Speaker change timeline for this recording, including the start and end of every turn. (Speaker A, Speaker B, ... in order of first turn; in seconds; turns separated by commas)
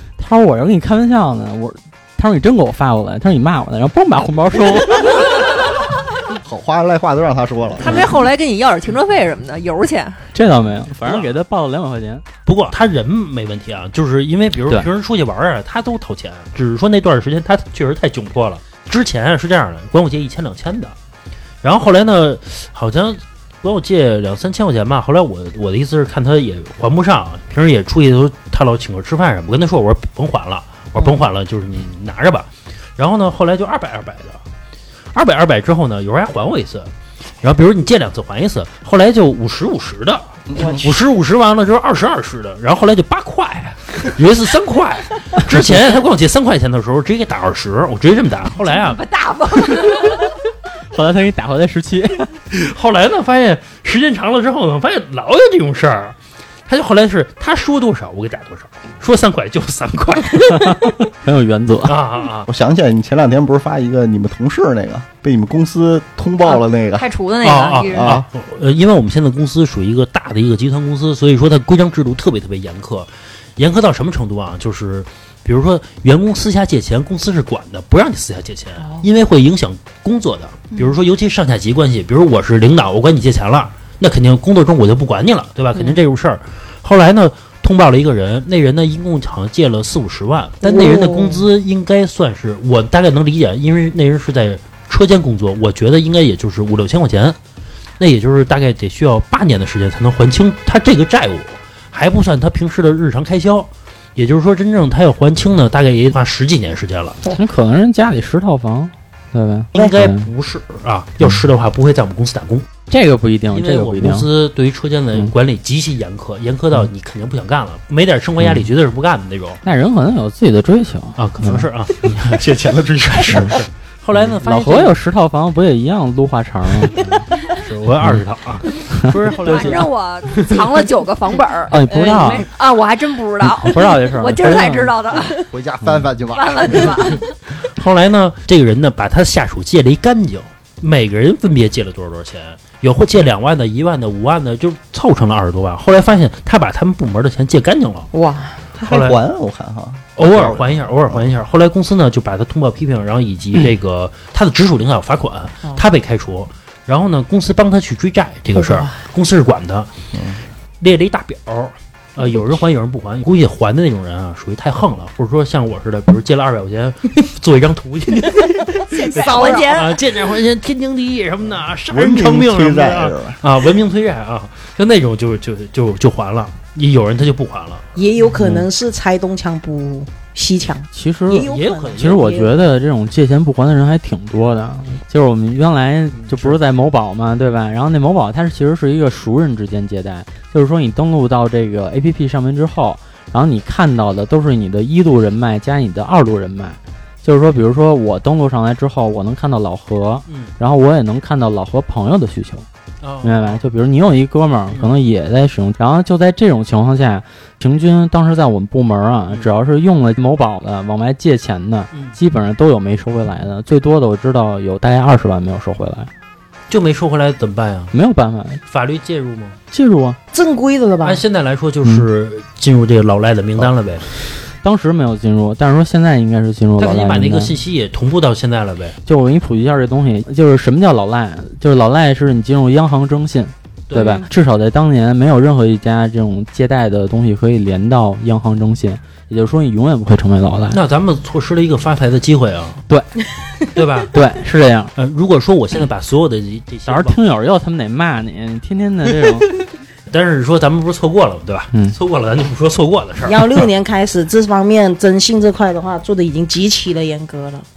Speaker A: 0.2-5.2, Speaker B: 6.3-8.1, Speaker C: 7.8-10.3, Speaker A: 10.3-12.2, Speaker D: 11.0-11.3, Speaker D: 12.4-20.9, Speaker D: 21.6-34.4, Speaker D: 35.1-36.9, Speaker D: 37.4-49.0, Speaker B: 40.5-40.8, Speaker C: 48.7-50.3, Speaker A: 50.9-52.3, Speaker D: 52.5-56.1, Speaker D: 56.7-60.9, Speaker A: 60.5-61.9, Speaker D: 61.8-62.5, Speaker B: 62.5-67.1, Speaker C: 66.4-68.2, Speaker D: 67.4-97.4, Speaker B: 67.9-68.2, Speaker E: 90.6-91.5, Speaker D: 98.0-107.2, Speaker A: 107.3-110.3, Speaker D: 109.8-112.7, Speaker A: 112.9-114.3, Speaker D: 113.5-119.6, Speaker A: 118.4-118.7, Speaker A: 119.6-121.7, Speaker D: 121.2-125.0, Speaker B: 122.2-123.6, Speaker A: 124.2-127.2, Speaker D: 127.4-130.8, Speaker A: 128.9-129.8, Speaker C: 129.4-135.5, Speaker A: 131.7-132.4, Speaker E: 131.9-132.2, Speaker A: 133.4-134.9, Speaker B: 135.3-137.0, Speaker A: 135.8-136.1, Speaker C: 136.3-137.3, Speaker D: 137.6-148.1, Speaker E: 148.1-148.8, Speaker D: 148.8-149.2, Speaker B: 148.8-151.2, Speaker D: 150.2-159.9, Speaker E: 158.5-158.9, Speaker B: 160.1-160.4, Speaker D: 160.8-177.8, Speaker C: 168.9-170.0, Speaker E: 169.1-169.7, Speaker B: 171.9-173.4, Speaker E: 177.9-182.7, Speaker A: 178.4-178.6, Speaker A: 180.9-202.7, Speaker D: 181.4-182.4, Speaker D: 186.1-186.6, Speaker D: 203.0-203.6, Speaker A: 203.2-216.1, Speaker D: 216.7-217.9, Speaker A: 217.9-218.6, Speaker D: 218.7-219.6, Speaker A: 219.7-220.2, Speaker E: 220.3-221.2, Speaker D: 221.0-224.1, Speaker A: 224.6-227.5, Speaker D: 226.8-229.0, Speaker A: 229.1-240.8, Speaker D: 233.9-234.2, Speaker D: 240.7-242.8, Speaker D: 243.7-244.1, Speaker A: 244.1-244.9, Speaker D: 244.9-247.2, Speaker A: 246.9-249.5, Speaker D: 250.1-253.7, Speaker A: 251.7-252.0, Speaker E: 253.2-257.6